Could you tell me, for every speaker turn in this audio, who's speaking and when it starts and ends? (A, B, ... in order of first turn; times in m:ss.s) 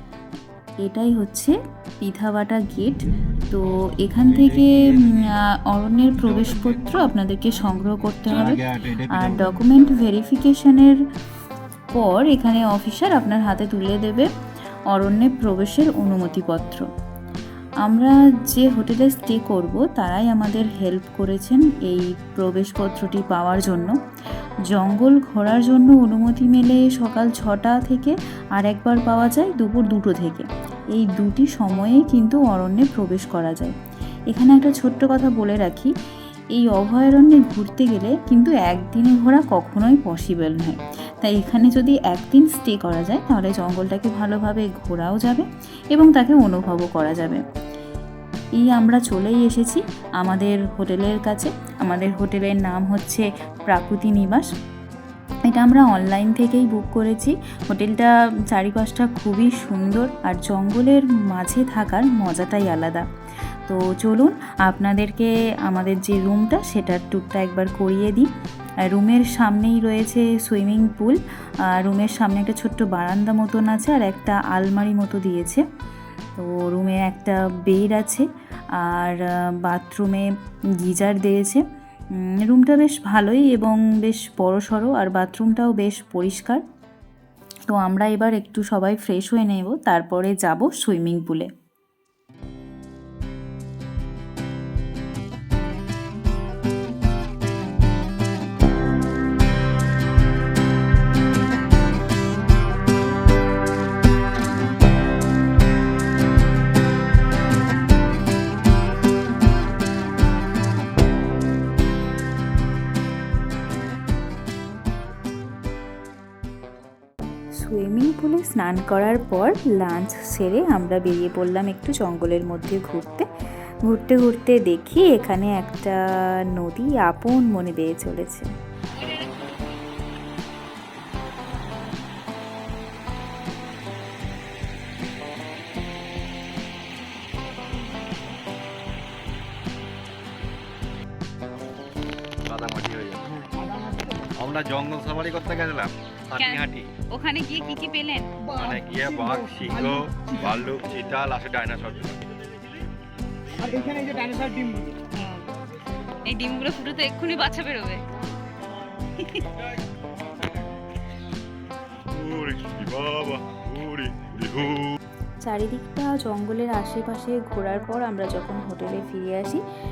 0:00.8-0:08.6 A
0:04.2-0:05.3 B
0:06.2-0:07.1 B
0:08.2-0:09.6 B
0:09.1-0:11.0 A
0:11.9-0:14.3 A
0:14.9-0:16.9 A
0:17.8-0:23.9 A
0:24.7-0:33.7 A
0:34.3-0:35.9 A
0:36.5-0:47.4 A
0:48.6-0:54.5 A
0:55.4-1:03.0 A
1:03.7-1:08.3 A
1:08.9-1:11.2 A
1:11.7-1:15.6 A
1:16.4-1:18.3 A
1:18.8-1:20.3 A
1:20.8-1:21.6 A
1:22.2-1:26.6 A
1:27.7-1:31.5 A
1:57.6-2:03.2 A
2:03.8-2:06.0 A
2:06.5-2:08.5 A
2:09.0-2:09.4 C
2:22.4-2:23.3 B
2:23.3-2:24.3 D
2:24.4-2:26.9 B
2:26.3-2:28.3 C
2:28.4-2:30.7 D
2:28.5-2:32.2 B
2:33.6-2:35.1 D
2:35.1-2:35.5 C
2:36.2-2:38.0 C
2:42.1-2:44.9 B
2:45.4-2:49.6 A